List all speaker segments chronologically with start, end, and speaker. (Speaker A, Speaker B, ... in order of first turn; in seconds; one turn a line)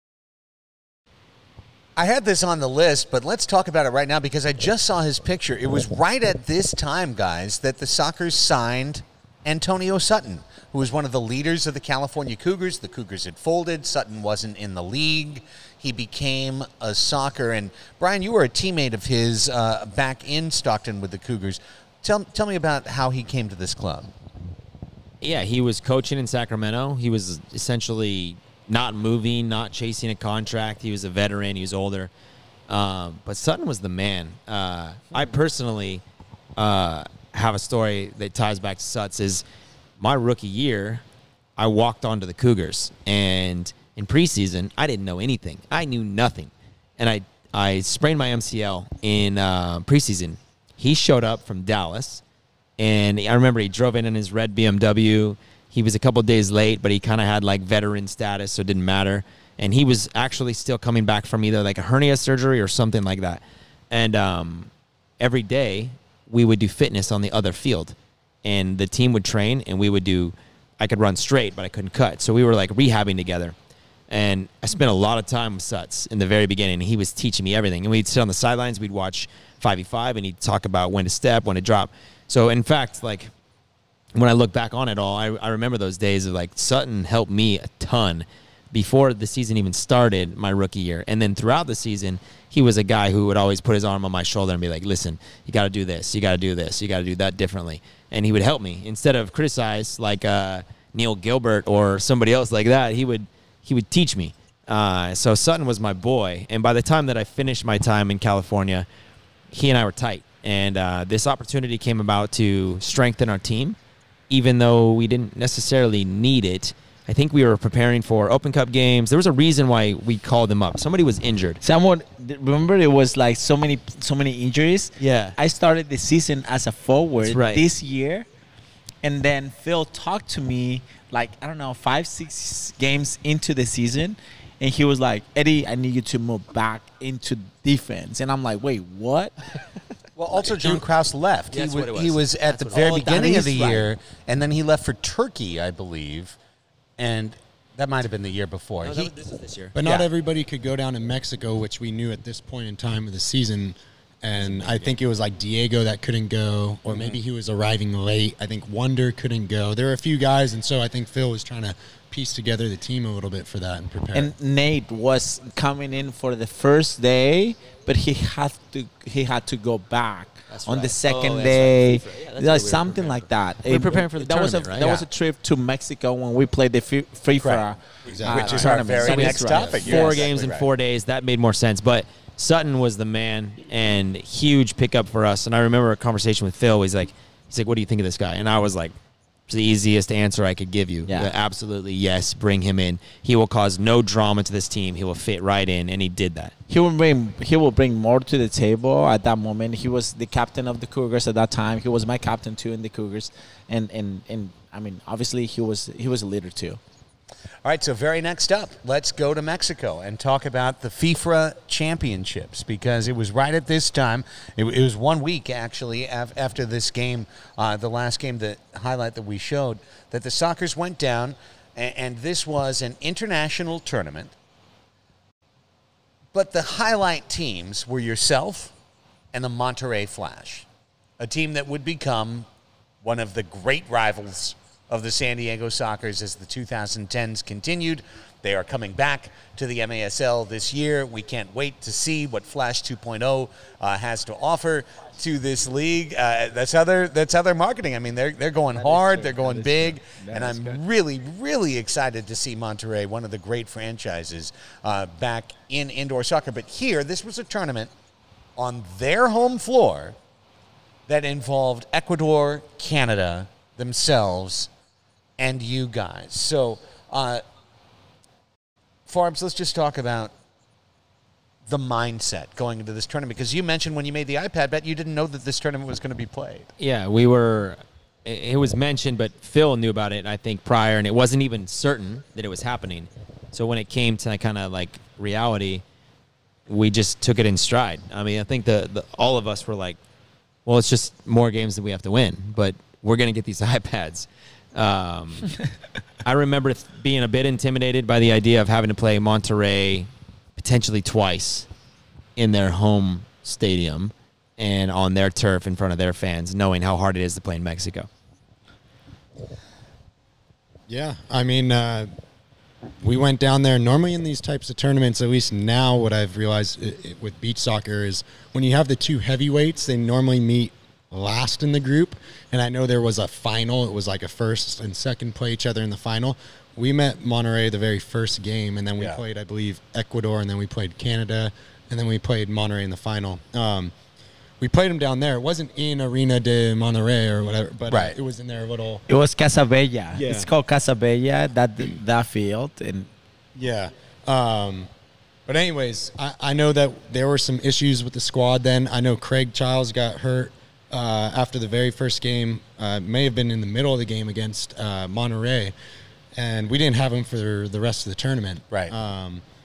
Speaker A: 1.9-24.1
Speaker B: 25.2-32.1
Speaker B: 32.7-36.0
Speaker B: 36.6-39.4
Speaker B: 40.0-41.0
Speaker B: 41.6-52.2
Speaker B: 52.8-73.5
Speaker B: 74.1-83.3
Speaker B: 84.1-108.8
Speaker B: 109.5-113.8
Speaker B: 114.3-121.6
Speaker C: 121.6-128.3
Speaker B: 125.0-125.3
Speaker B: 127.2-127.6
Speaker C: 129.0-139.6
Speaker A: 140.2-146.4
Speaker D: 140.4-140.8
Speaker B: 141.5-143.2
Speaker C: 142.7-143.9
Speaker A: 147.0-149.1
Speaker B: 148.8-150.1
Speaker D: 149.7-164.3
Speaker C: 164.1-180.2
Speaker B: 170.5-175.1
Speaker A: 177.4-177.6
Speaker D: 178.1-179.8
Speaker A: 178.2-180.7
Speaker B: 179.0-188.9
Speaker B: 189.5-196.5
Speaker C: 191.1-191.3
Speaker C: 196.7-206.8
Speaker A: 207.6-224.3
Speaker A: 226.3-228.7
Speaker A: 229.3-230.7
Speaker A: 231.2-232.4
Speaker A: 233.0-257.9
Speaker C: 248.8-250.8
Speaker A: 258.6-260.1
Speaker A: 261.1-264.7
Speaker A: 265.4-267.4
Speaker A: 269.1-270.3
Speaker A: 271.7-276.7
Speaker B: 276.8-285.8
Speaker B: 286.7-290.0
Speaker B: 290.6-295.6
Speaker B: 296.2-301.7
Speaker B: 302.4-308.1
Speaker D: 310.9-312.1
Speaker D: 313.0-333.9
Speaker D: 334.6-339.0
Speaker C: 339.1-343.1
Speaker D: 340.1-340.5
Speaker D: 343.5-344.9
Speaker D: 345.5-355.7
Speaker D: 356.3-359.4